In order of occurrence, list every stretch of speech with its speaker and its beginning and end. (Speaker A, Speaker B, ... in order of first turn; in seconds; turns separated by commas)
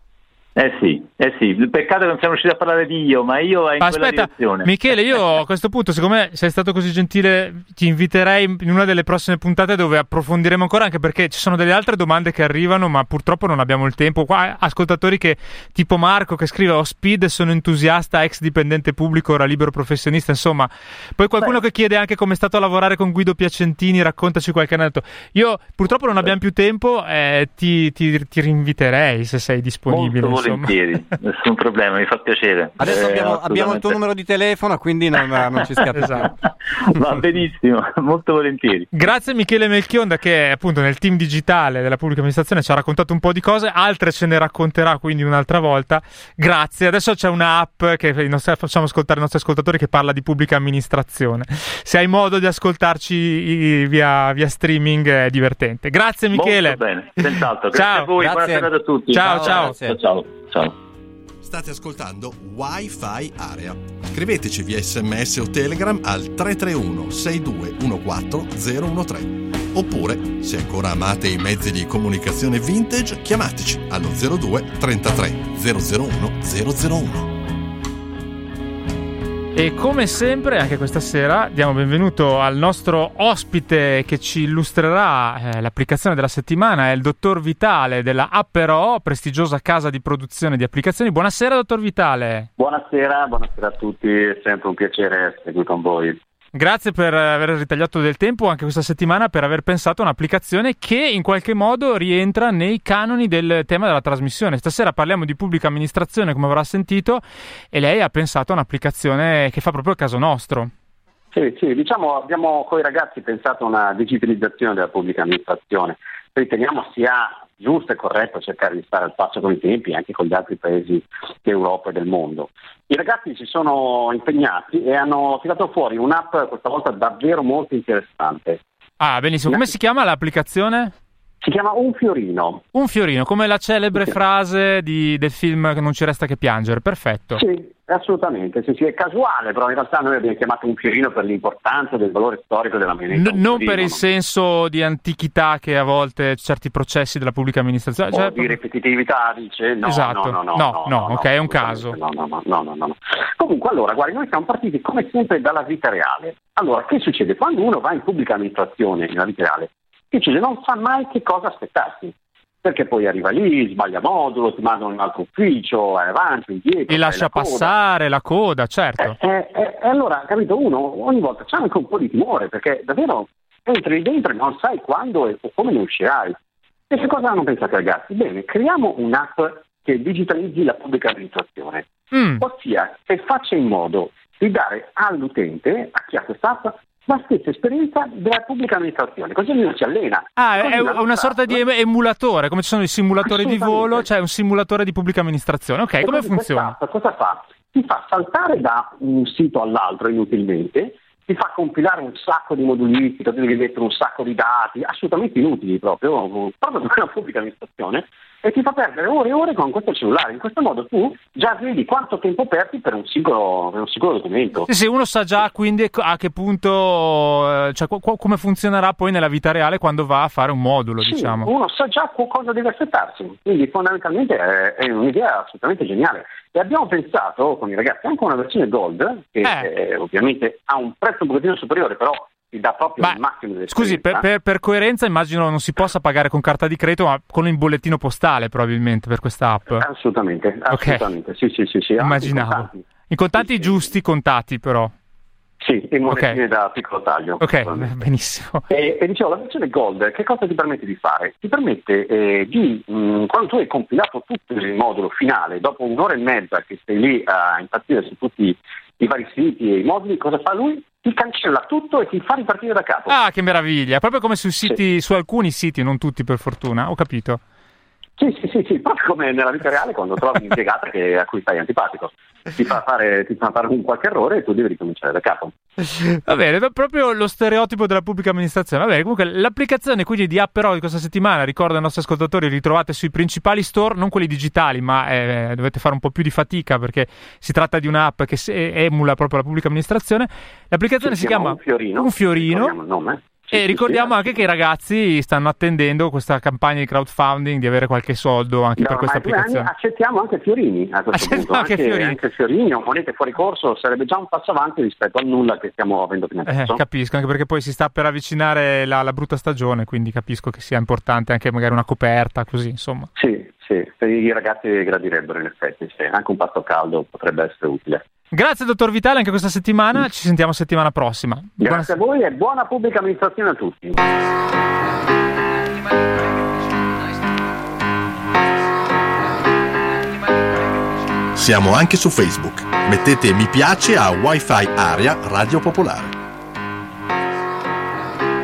Speaker A: 0.6-4.7, Speaker B: 3.8-30.7, Speaker A: 29.9-34.0, Speaker C: 32.8-36.3, Speaker A: 35.8-39.0, Speaker B: 36.0-36.3, Speaker B: 38.9-56.8, Speaker A: 56.3-60.7, Speaker B: 57.7-58.1, Speaker C: 58.2-60.0, Speaker B: 59.1-59.7, Speaker D: 61.4-77.3, Speaker B: 79.5-92.5, Speaker E: 92.6-96.2, Speaker B: 96.5-110.7, Speaker E: 111.3-128.6, Speaker B: 129.0-130.9, Speaker E: 131.4-132.6, Speaker B: 132.7-137.4, Speaker E: 137.3-144.0, Speaker B: 143.1-148.6, Speaker E: 148.1-167.7, Speaker B: 149.8-152.0, Speaker B: 166.9-169.2, Speaker E: 169.0-176.4, Speaker E: 176.9-191.6, Speaker B: 182.1-182.4, Speaker B: 190.4-196.8, Speaker E: 193.2-194.1, Speaker E: 196.0-214.7, Speaker B: 214.7-221.5, Speaker E: 221.0-234.2, Speaker B: 229.4-229.7, Speaker B: 233.7-239.8, Speaker E: 239.8-242.8, Speaker B: 240.7-241.0, Speaker B: 242.0-244.9, Speaker E: 243.4-243.8, Speaker E: 245.6-247.9, Speaker B: 246.1-246.4, Speaker B: 247.4-248.6, Speaker E: 248.7-263.1, Speaker B: 263.1-267.4, Speaker E: 268.2-275.5, Speaker B: 276.0-292.8, Speaker E: 291.0-294.4, Speaker B: 293.5-299.7, Speaker E: 298.8-306.8, Speaker B: 301.1-302.2, Speaker B: 306.4-313.1, Speaker E: 313.1-318.0, Speaker B: 318.3-321.9, Speaker E: 321.6-324.0, Speaker D: 331.3-336.1